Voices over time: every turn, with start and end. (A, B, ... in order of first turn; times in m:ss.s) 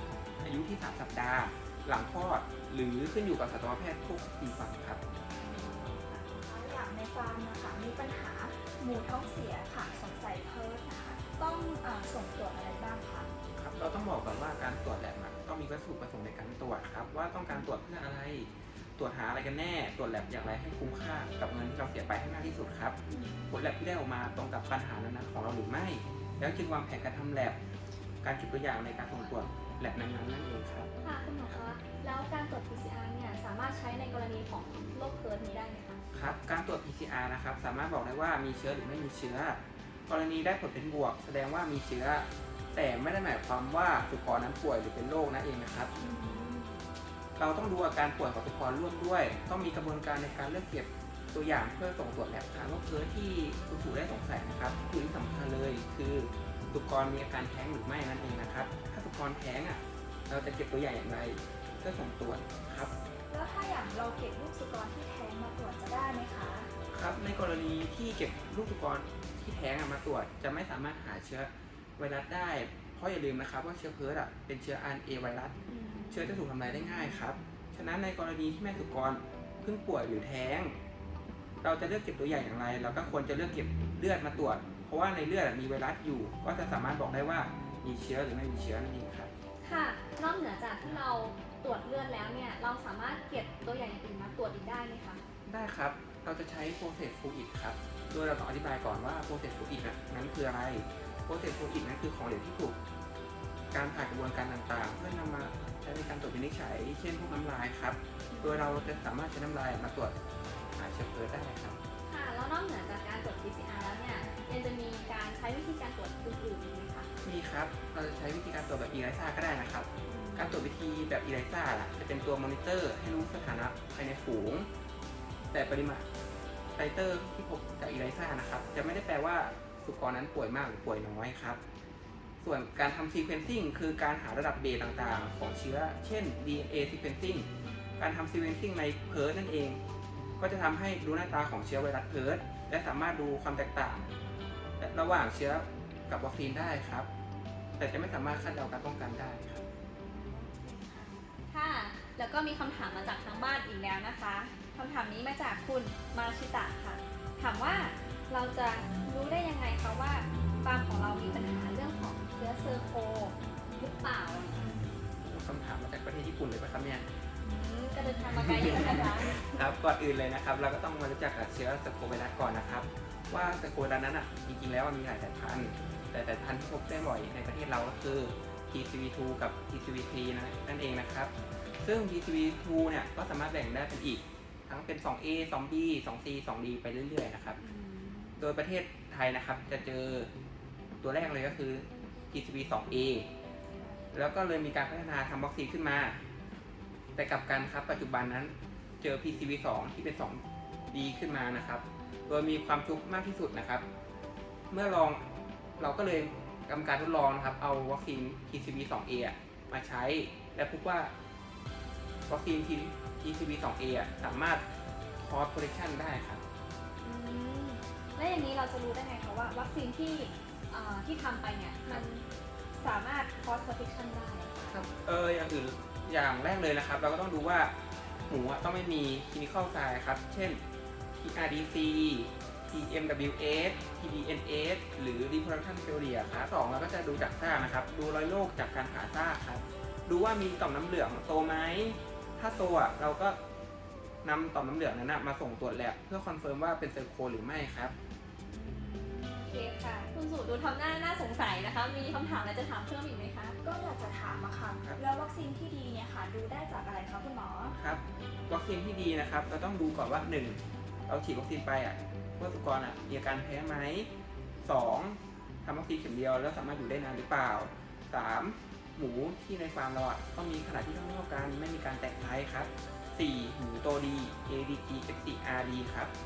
0:00.4-0:05.0 A
0:05.4-0:13.3 B
0:05.5-0:05.8 C
0:13.6-0:23.0 A
0:23.1-0:23.4 C
0:23.5-0:27.6 A
0:28.2-0:30.9 A
0:31.0-0:36.0 C
0:36.1-0:45.9 A
0:46.0-0:46.8 C
0:47.4-1:02.9 A
1:03.3-1:06.7 B
1:06.9-1:15.6 A
1:15.7-1:16.4 C
1:16.1-1:20.8 A
1:21.6-1:29.3 A
1:29.6-1:35.2 C
1:35.4-1:42.8 A
1:43.7-1:50.2 A
1:48.3-1:49.0 C
1:50.8-1:51.8 A
1:52.1-1:57.1 C
1:57.2-2:04.7 A
2:00.1-2:00.6 C
2:05.5-2:06.0 A
2:06.8-2:11.6 A
2:12.4-2:17.5 A
2:18.0-2:19.8 A
2:20.4-2:24.1 A
2:24.8-2:27.1 A
2:27.8-2:29.6 A
2:30.1-2:44.8 C
2:30.6-2:31.0 B
2:44.8-2:47.1 A
2:47.4-2:49.6 C
2:48.4-3:07.6 A
3:07.6-3:08.4 C
3:08.4-3:10.3 A
3:11.0-3:13.3 A
3:14.1-3:16.2 A
3:17.2-3:23.8 A
3:24.7-3:25.2 A
3:25.8-3:31.1 A
3:32.3-3:34.6 A
3:35.2-3:36.4 A
3:37.0-3:44.7 C
3:44.6-3:47.7 A
3:48.3-3:50.6 A
3:51.2-4:03.4 A
4:04.2-4:07.9 A
4:08.5-4:13.6 C
4:13.6-4:17.8 B
4:17.7-4:24.1 A
4:24.6-4:36.1 A